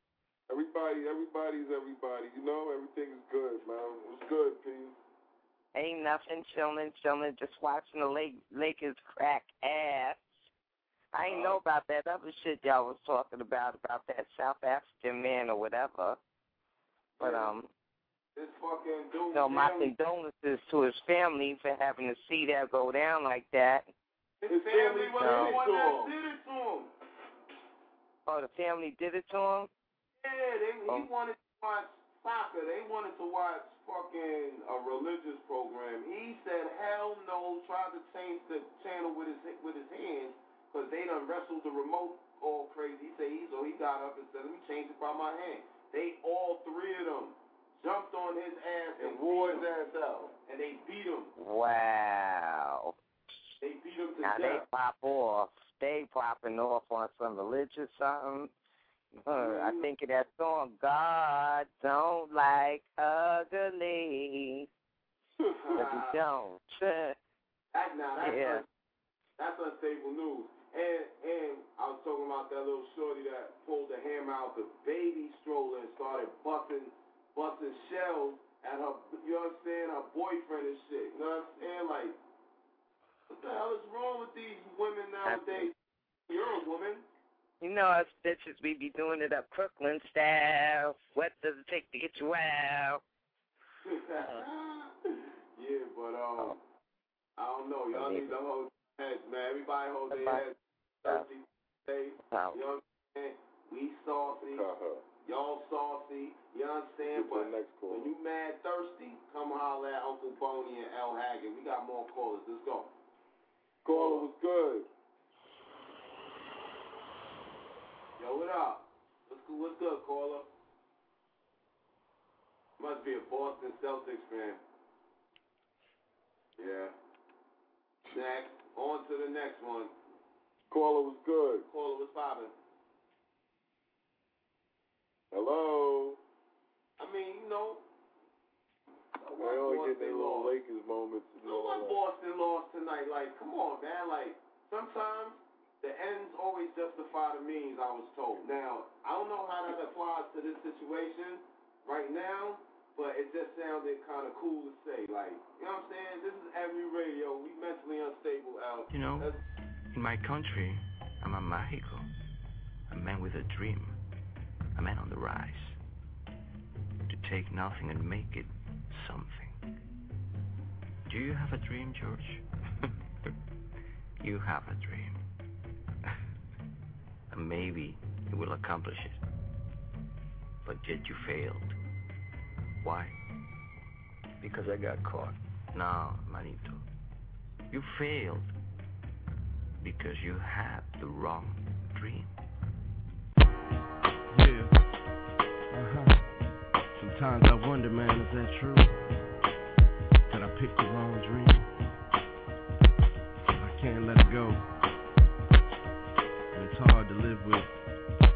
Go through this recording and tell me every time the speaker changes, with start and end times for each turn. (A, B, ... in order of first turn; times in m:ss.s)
0:00.5-0:05.0 A
0:05.8-0:10.3 B
0:11.1-0:16.2 B
0:11.3-0:11.6 C
0:17.2-0:17.6 C
0:17.2-0:17.7 B
0:18.4-0:19.9 C
0:19.3-0:23.9 B
0:24.4-0:26.9 C
0:24.5-0:26.1 A
0:25.2-0:25.6 B
0:28.3-0:29.7 B
0:30.2-0:51.3 C
0:49.0-0:50.2 A
0:51.4-0:53.0 B
0:53.6-0:54.7 C
0:54.2-0:58.5 B
0:59.3-1:04.7 B
1:05.4-1:05.9 A
1:05.5-1:06.2 C
1:05.8-1:07.2 B
1:07.7-1:08.6 C
1:08.2-1:08.6 B
1:09.4-1:22.2 C
1:23.3-1:25.7 C
1:25.2-1:25.7 B
1:26.3-1:27.1 C
1:27.6-1:33.0 B
1:33.8-1:36.6 C
1:37.4-1:44.7 C
1:37.9-1:38.3 B
1:40.1-1:40.4 B
1:42.3-1:42.6 B
1:44.4-1:45.0 A
1:45.2-1:52.9 C
1:47.1-1:48.1 A
1:53.8-1:54.9 A
1:53.9-1:54.3 C
1:58.2-2:00.5 C
2:02.8-2:04.6 C
2:06.6-2:06.9 C
2:08.1-2:09.9 C
2:10.7-2:11.7 A
2:11.7-2:12.5 C
2:15.3-2:16.2 A
2:17.0-2:17.8 C
2:19.2-2:20.6 C
2:19.4-2:22.0 A
2:21.4-2:39.4 C
2:38.9-2:39.3 D
2:39.9-2:42.1 D
2:42.9-2:44.0 D
2:44.8-2:45.8 D
2:47.1-2:49.6 D
2:51.1-2:52.4 D
2:54.2-2:55.2 D
2:57.3-2:59.2 D
3:00.6-3:01.7 D
3:02.8-3:03.2 D
3:04.4-3:06.8 D
3:07.7-3:08.5 D
3:09.8-3:12.3 D
3:17.1-3:18.9 E
3:20.4-3:21.5 E
3:23.8-3:24.5 E
3:26.6-3:27.6 E